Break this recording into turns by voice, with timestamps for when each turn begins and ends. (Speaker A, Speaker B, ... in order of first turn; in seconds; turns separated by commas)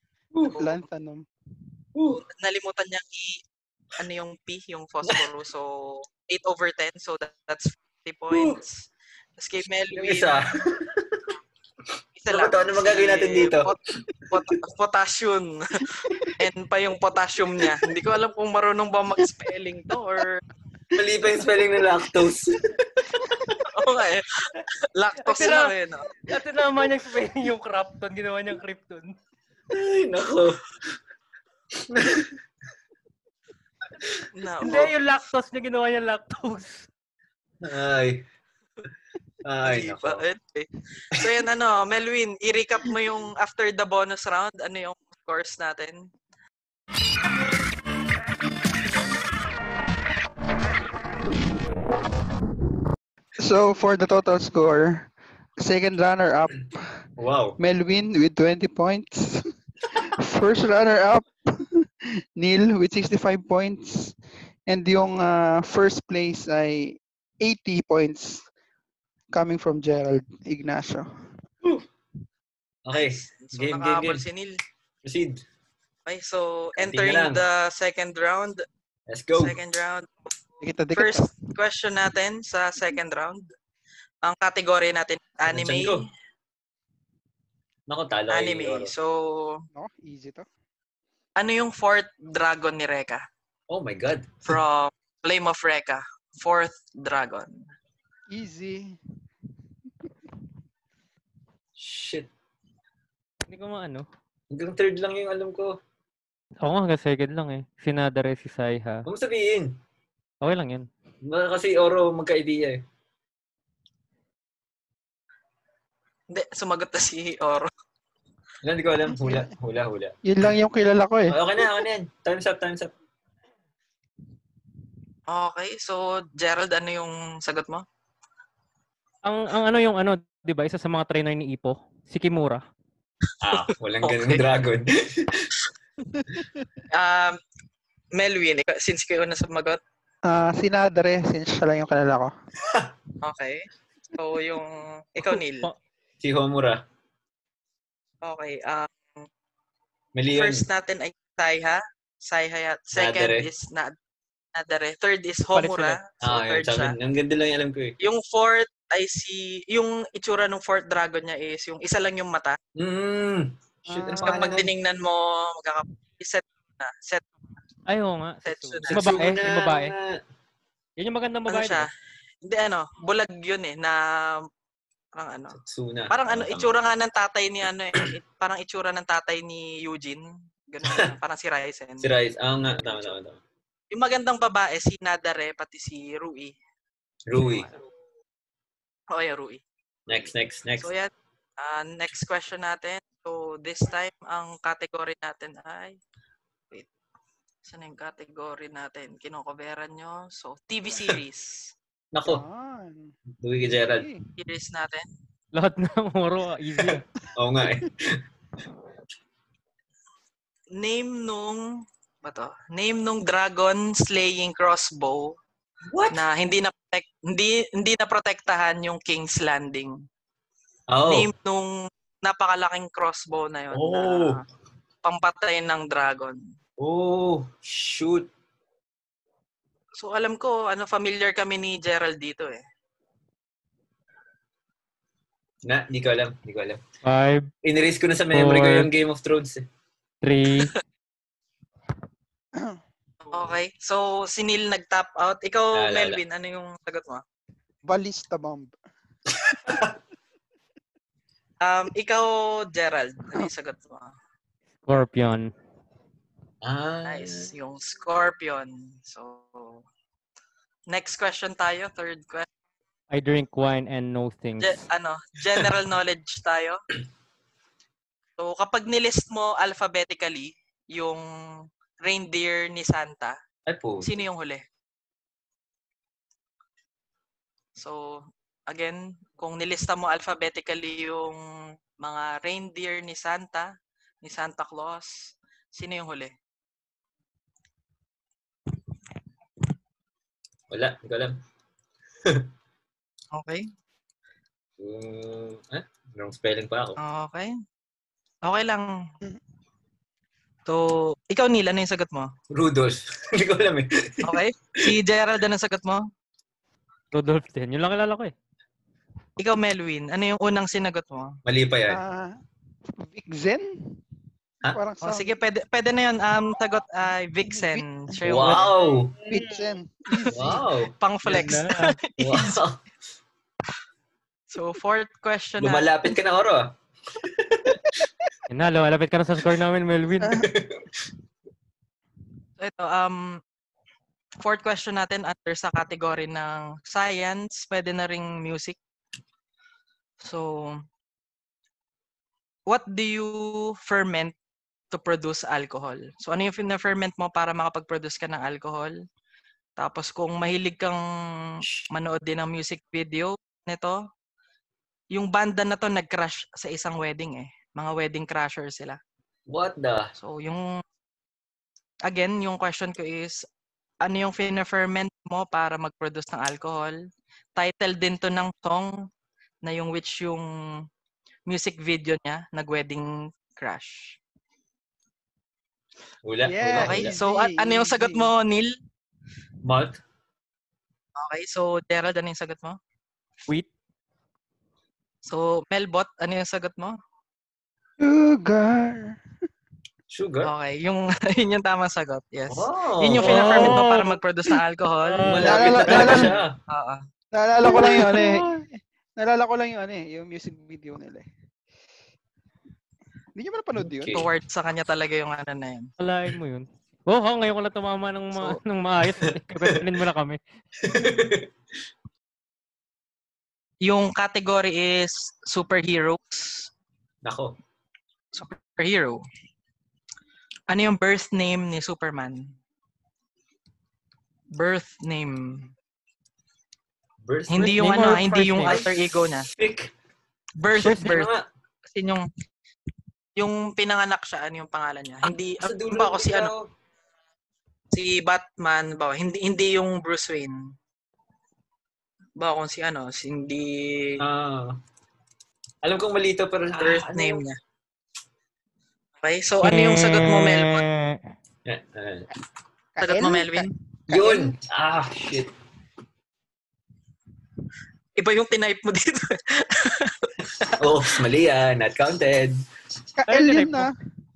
Speaker A: 0.3-0.6, Speaker B: 0.4-0.8, Speaker C: 0.5-1.2, Speaker A: 1.9-2.2, Speaker B: 2.3-3.4, Speaker B: 4.0-10.6, Speaker A: 8.3-8.6, Speaker A: 9.9-11.3, Speaker B: 12.2-20.4, Speaker A: 12.3-13.7, Speaker A: 20.9-23.6, Speaker B: 23.6-26.1, Speaker D: 25.2-29.1, Speaker A: 29.7-30.9, Speaker A: 31.7-32.4, Speaker B: 34.3-34.9, Speaker D: 34.6-36.9, Speaker A: 37.6-38.2, Speaker A: 39.4-40.2, Speaker B: 39.6-46.1, Speaker C: 53.4-56.9, Speaker A: 57.2-57.6, Speaker C: 57.6-64.1, Speaker C: 64.7-68.5, Speaker C: 69.3-71.3, Speaker A: 72.8-74.2, Speaker B: 72.9-74.5, Speaker A: 75.0-75.4, Speaker B: 76.0-78.6, Speaker A: 76.8-77.4, Speaker A: 79.1-79.6, Speaker B: 79.3-80.1, Speaker C: 80.6-81.4, Speaker B: 80.9-83.4, Speaker B: 84.2-86.0, Speaker A: 85.5-86.0, Speaker A: 87.9-88.9, Speaker B: 88.3-89.6, Speaker C: 89.7-90.5, Speaker B: 91.4-93.2, Speaker A: 93.7-94.6, Speaker B: 94.5-97.5, Speaker C: 98.3-99.0, Speaker A: 101.8-102.3, Speaker D: 103.5-104.0, Speaker A: 104.5-105.8, Speaker D: 106.6-109.0, Speaker A: 109.0-109.8, Speaker D: 110.4-110.9, Speaker A: 111.2-112.8, Speaker B: 116.3-117.7, Speaker A: 118.6-120.2, Speaker C: 119.2-119.5, Speaker C: 120.2-121.4, Speaker A: 121.3-122.9, Speaker B: 125.3-127.8, Speaker D: 129.2-132.6, Speaker A: 133.4-135.7, Speaker B: 134.0-134.4, Speaker C: 136.2-136.4, Speaker B: 136.9-137.4, Speaker B: 138.1-139.8, Speaker C: 140.2-142.3, Speaker A: 142.7-142.9, Speaker B: 143.2-145.7, Speaker D: 145.2-145.7, Speaker A: 146.2-146.8, Speaker B: 148.2-149.2, Speaker A: 150.1-150.7, Speaker B: 150.3-153.9, Speaker A: 152.9-153.5, Speaker B: 154.5-156.9, Speaker D: 155.5-156.0, Speaker A: 156.2-157.9, Speaker B: 158.0-162.6, Speaker A: 162.7-164.7, Speaker C: 163.9-164.7, Speaker B: 164.2-167.2, Speaker D: 167.9-169.9, Speaker B: 168.4-169.4, Speaker A: 168.9-170.2, Speaker D: 171.0-171.9, Speaker B: 171.5-171.9, Speaker B: 172.4-174.4, Speaker B: 175.2-175.6, Speaker A: 175.5-176.7, Speaker B: 176.1-182.1, Speaker A: 182.0-183.4, Speaker B: 182.8-183.2, Speaker B: 183.9-186.6, Speaker A: 187.3-187.7, Speaker B: 187.3-187.8, Speaker B: 189.1-189.6, Speaker A: 190.1-190.9, Speaker B: 190.8-196.0, Speaker B: 197.6-201.7, Speaker A: 202.1-202.4, Speaker C: 202.2-203.1, Speaker A: 203.4-204.1, Speaker C: 203.8-204.2, Speaker B: 204.4-205.1, Speaker D: 205.5-207.0, Speaker A: 207.3-208.2, Speaker B: 210.8-211.7, Speaker B: 212.2-215.3, Speaker A: 215.9-216.2, Speaker B: 216.1-220.0, Speaker A: 220.9-221.3, Speaker B: 221.1-224.4, Speaker A: 223.7-224.4, Speaker B: 225.0-226.4, Speaker A: 226.8-228.3, Speaker B: 230.0-232.6, Speaker A: 235.6-236.8, Speaker D: 237.0-237.5, Speaker A: 237.6-239.7, Speaker D: 238.3-238.9, Speaker D: 240.2-240.7, Speaker C: 242.5-242.8, Speaker B: 243.3-247.2, Speaker A: 245.7-246.2, Speaker C: 247.8-248.8, Speaker A: 249.3-249.9, Speaker B: 251.6-254.1, Speaker D: 254.8-255.5, Speaker A: 256.6-257.5, Speaker B: 257.0-259.8, Speaker B: 260.9-262.5, Speaker D: 263.1-264.8, Speaker B: 264.6-266.8, Speaker B: 268.4-271.3, Speaker B: 272.0-273.4, Speaker A: 273.6-274.1, Speaker B: 274.0-274.6, Speaker B: 277.8-281.4, Speaker B: 282.0-283.7, Speaker B: 284.2-286.3, Speaker A: 290.7-291.4, Speaker B: 293.3-293.7, Speaker A: 294.8-297.0, Speaker B: 297.0-297.5, Speaker B: 298.4-299.0, Speaker B: 300.7-302.3, Speaker A: 302.5-304.9, Speaker B: 304.2-306.0, Speaker D: 307.1-308.3, Speaker B: 309.4-311.4, Speaker A: 311.4-312.0, Speaker C: 311.9-312.4, Speaker C: 313.0-314.0, Speaker C: 314.7-315.4, Speaker B: 315.0-318.7, Speaker C: 317.4-318.5, Speaker A: 318.2-319.1, Speaker C: 319.2-320.6, Speaker B: 320.1-322.6, Speaker A: 320.3-320.9, Speaker D: 321.2-321.9, Speaker A: 322.2-322.8, Speaker B: 324.5-325.9, Speaker A: 325.6-328.0, Speaker D: 328.5-330.4, Speaker C: 330.2-330.5, Speaker A: 330.2-331.0, Speaker B: 332.6-333.4, Speaker B: 334.4-338.8, Speaker B: 340.2-340.8, Speaker B: 342.7-344.3, Speaker B: 344.9-348.9, Speaker B: 349.8-351.0, Speaker B: 351.9-354.0, Speaker B: 355.1-359.0, Speaker A: 359.5-360.1, Speaker B: 360.2-360.7, Speaker B: 362.1-363.4, Speaker B: 364.0-367.0, Speaker B: 367.6-368.9, Speaker B: 369.6-370.5, Speaker B: 371.5-374.2, Speaker A: 376.2-377.1, Speaker C: 376.4-378.3, Speaker B: 376.8-378.8, Speaker A: 379.6-380.0, Speaker B: 381.1-382.8, Speaker B: 385.2-387.0, Speaker C: 388.0-389.2, Speaker A: 390.1-390.5, Speaker B: 390.4-397.0, Speaker A: 392.5-393.8, Speaker D: 393.2-394.2, Speaker D: 395.0-396.3, Speaker A: 395.2-396.6, Speaker C: 395.4-396.4, Speaker C: 397.3-401.2, Speaker C: 403.3-404.2, Speaker A: 403.8-404.3, Speaker B: 404.1-405.9, Speaker D: 406.0-410.4, Speaker A: 409.2-409.8, Speaker A: 410.8-411.5, Speaker B: 413.8-416.7, Speaker A: 417.2-417.5, Speaker B: 418.3-419.2, Speaker B: 420.7-422.5, Speaker B: 424.6-425.7, Speaker A: 427.2-429.9, Speaker B: 427.5-429.5, Speaker D: 427.6-428.9, Speaker B: 430.6-431.3, Speaker A: 430.8-431.5, Speaker B: 431.9-432.2, Speaker B: 433.4-436.5, Speaker A: 435.2-436.7, Speaker B: 437.9-440.7, Speaker B: 442.4-444.2, Speaker A: 444.2-444.8, Speaker A: 445.8-447.4, Speaker B: 446.7-447.6, Speaker B: 449.2-450.8, Speaker D: 449.6-451.2, Speaker A: 451.6-452.3, Speaker C: 452.9-454.5, Speaker B: 453.0-453.7, Speaker A: 454.1-455.5, Speaker B: 458.1-461.2, Speaker A: 460.6-462.6, Speaker C: 463.2-463.9, Speaker D: 463.3-463.9